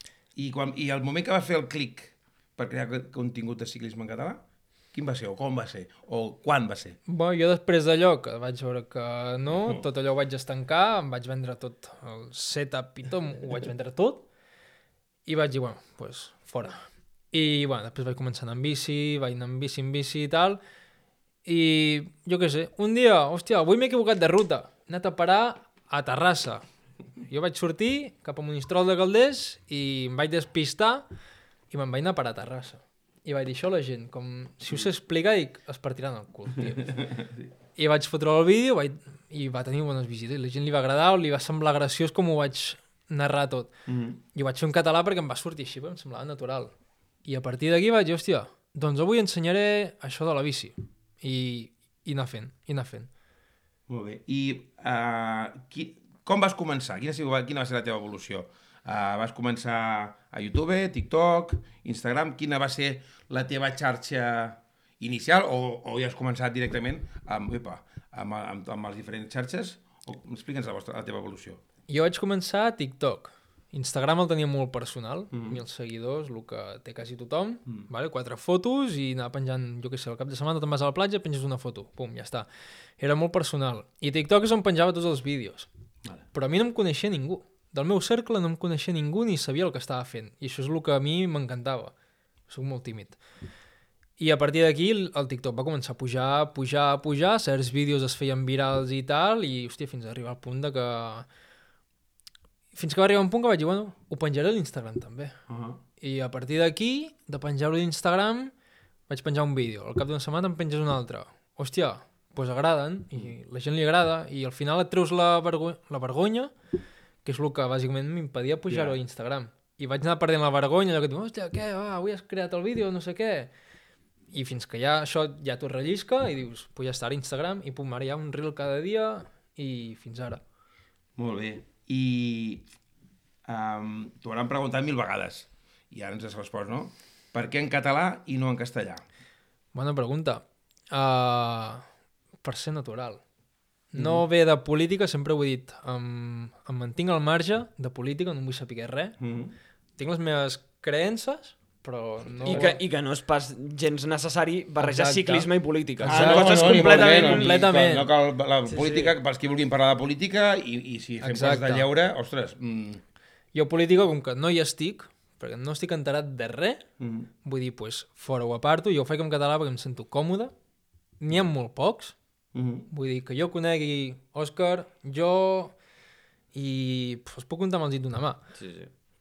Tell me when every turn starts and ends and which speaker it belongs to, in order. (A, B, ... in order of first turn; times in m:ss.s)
0:00.4-0:07.0 A
0:07.1-0:14.3 B
0:09.6-0:09.8 A
0:15.3-0:20.6 B
0:21.4-0:26.6 B
0:27.3-0:31.1 B
0:31.7-0:37.0 B
0:36.6-0:37.5 A
0:37.8-0:43.7 B
0:43.9-0:44.2 A
0:44.3-0:46.7 B
0:47.2-0:53.1 B
0:53.9-1:11.6 A
1:11.9-1:22.5 B
1:15.3-1:15.6 A
1:23.0-1:25.7 B
1:26.3-1:31.9 B
1:32.5-1:33.2 B
1:34.2-1:41.3 B
1:42.7-1:45.4 B
1:45.5-1:45.8 A
1:46.0-1:48.5 B
1:49.1-1:56.5 B
1:57.2-2:03.5 B
1:58.7-1:59.0 A
2:04.3-2:10.4 B
2:11.2-2:12.7 A
2:13.5-2:19.0 A
2:19.7-2:21.8 B
2:22.4-2:23.2 B
2:23.9-2:29.2 B
2:24.0-2:24.2 A
2:29.2-2:29.6 A
2:30.0-2:32.8 B
2:32.3-2:32.7 A
2:32.5-2:37.7 C
2:34.8-2:35.5 B
2:36.0-2:38.1 B
2:36.1-2:43.0 A
2:38.7-2:39.1 C
2:41.2-2:41.9 B
2:43.5-2:46.9 B
2:47.0-2:47.3 A
2:47.4-2:50.5 B
2:51.2-2:52.2 B
2:52.5-2:52.9 A
2:52.9-2:55.8 B
2:56.5-2:58.4 B
2:58.6-2:58.9 C